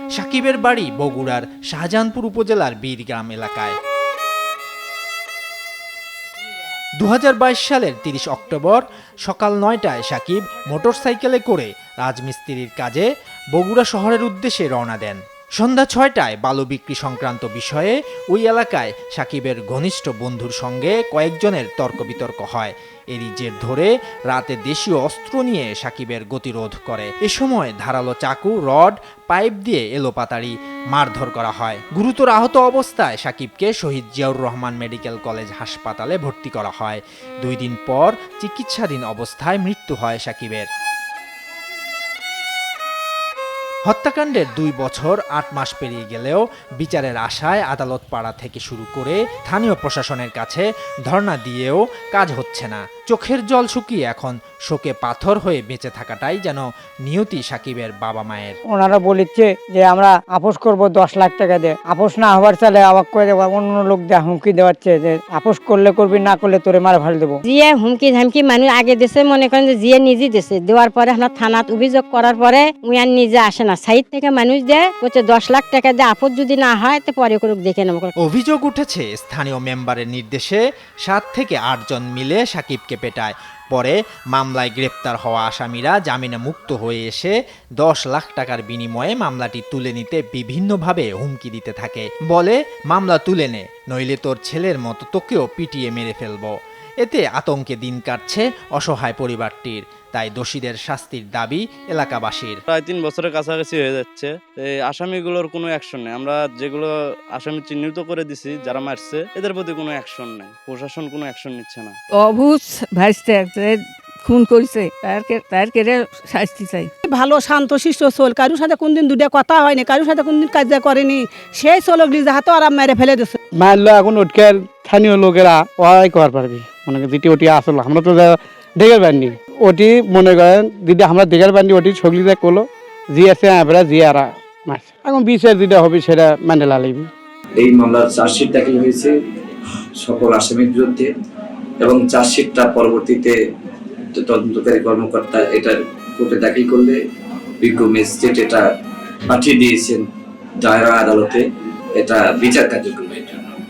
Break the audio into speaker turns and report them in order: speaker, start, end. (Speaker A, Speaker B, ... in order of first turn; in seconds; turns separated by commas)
Speaker A: 0.1-3.8, Speaker A: 7.0-40.7, Speaker A: 43.9-58.6, Speaker B: 58.7-67.4, Speaker C: 67.5-78.1, Speaker A: 78.2-102.6, Speaker D: 102.7-112.0, Speaker E: 112.2-116.9, Speaker F: 117.0-123.4, Speaker G: 123.5-137.1, Speaker H: 137.6-139.1, Speaker H: 140.0-141.1, Speaker H: 141.8-143.4, Speaker H: 144.1-147.0, Speaker H: 147.6-148.6, Speaker H: 149.3-150.1, Speaker H: 150.6-151.4, Speaker H: 152.0-153.4